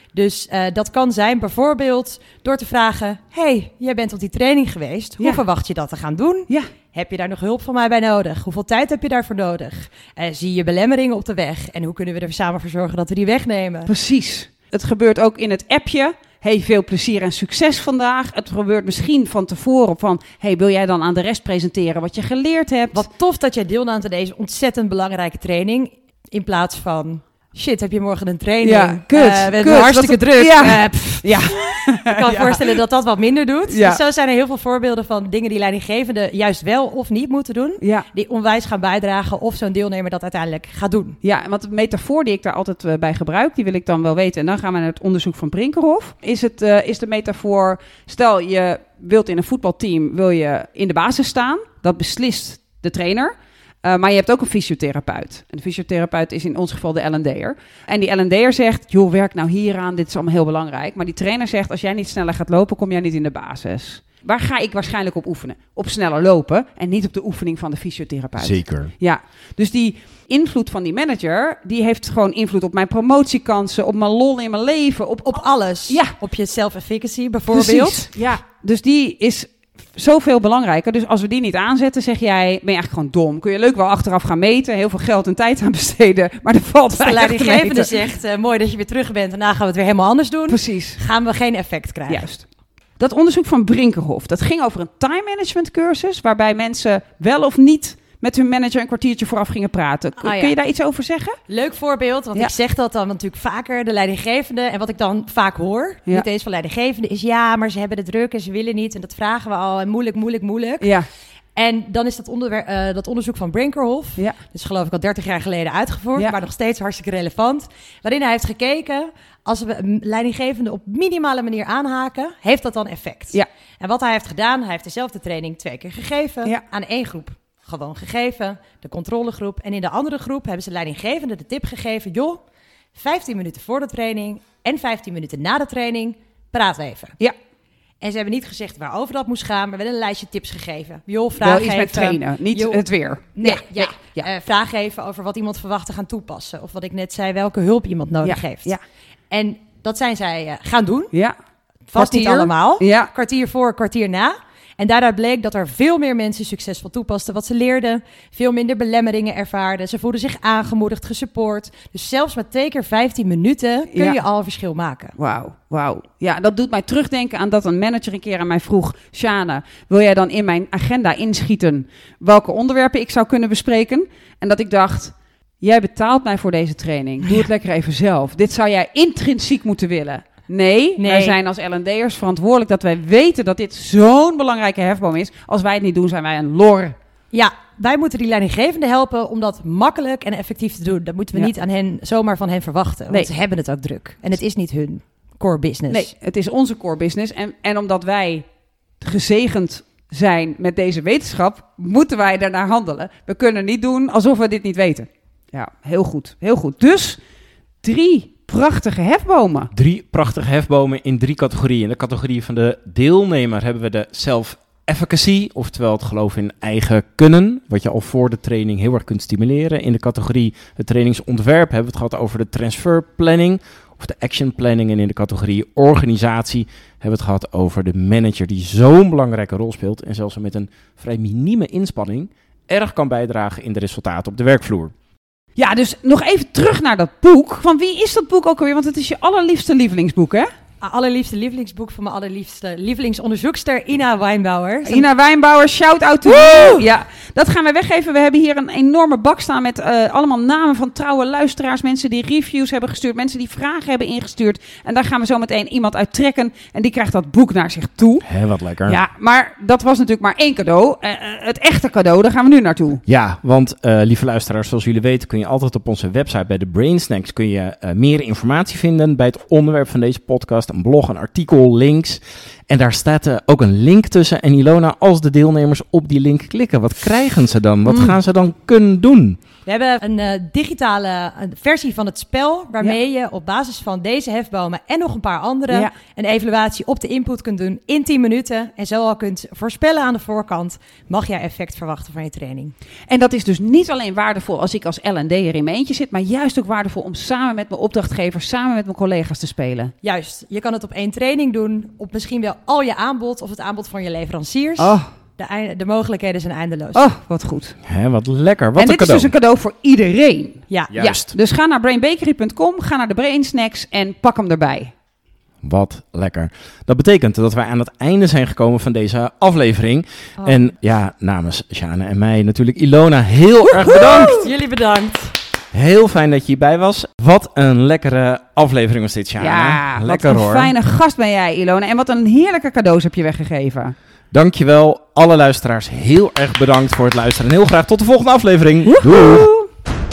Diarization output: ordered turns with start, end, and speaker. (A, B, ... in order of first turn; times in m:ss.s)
0:00.1-0:13.9 A
0:13.9-0:23.1 B
0:22.9-0:41.2 A
0:28.6-0:32.8 B
0:33.7-0:34.0 B
0:37.8-0:38.0 B
0:41.2-1:16.1 B
1:08.4-1:08.9 C
1:15.3-1:18.1 A
1:17.5-1:27.9 B
1:26.9-1:32.2 A
1:30.5-1:31.0 B
1:32.1-1:32.4 B
1:33.0-1:41.4 B
1:40.2-1:40.6 A
1:41.5-1:50.9 A
1:50.8-1:51.1 B
1:51.6-2:12.4 A
2:12.9-2:17.2 A
2:18.0-2:22.8 A
2:21.4-2:24.2 B
2:23.4-2:28.7 A
2:28.2-2:28.8 B
2:29.3-2:31.1 A
2:31.9-2:45.1 A
2:31.9-2:33.1 B
2:43.9-2:44.2 B
2:45.2-3:07.0 B
3:01.0-3:01.4 A
3:07.3-3:16.1 A
3:15.9-3:18.5 B
3:19.0-3:27.2 B
3:27.8-3:29.7 B
3:29.7-3:54.9 C
3:55.6-4:00.5 B
4:00.8-4:05.0 A
4:04.8-4:18.2 B
4:06.3-4:06.8 A
4:18.2-4:19.0 C
4:18.8-4:23.0 B
4:23.1-4:39.4 C
4:37.8-4:38.1 B
4:39.6-4:52.7 A
4:53.1-4:59.9 B
5:00.0-5:07.0 A
5:04.8-5:05.1 B
5:06.9-5:07.8 B
5:07.8-5:09.3 C
5:08.8-5:14.9 B
5:10.9-5:11.3 C
5:15.6-5:24.4 C
5:23.8-5:25.3 A
5:25.7-5:30.7 C
5:29.4-5:33.9 B
5:34.3-5:39.5 C
5:39.0-5:39.6 B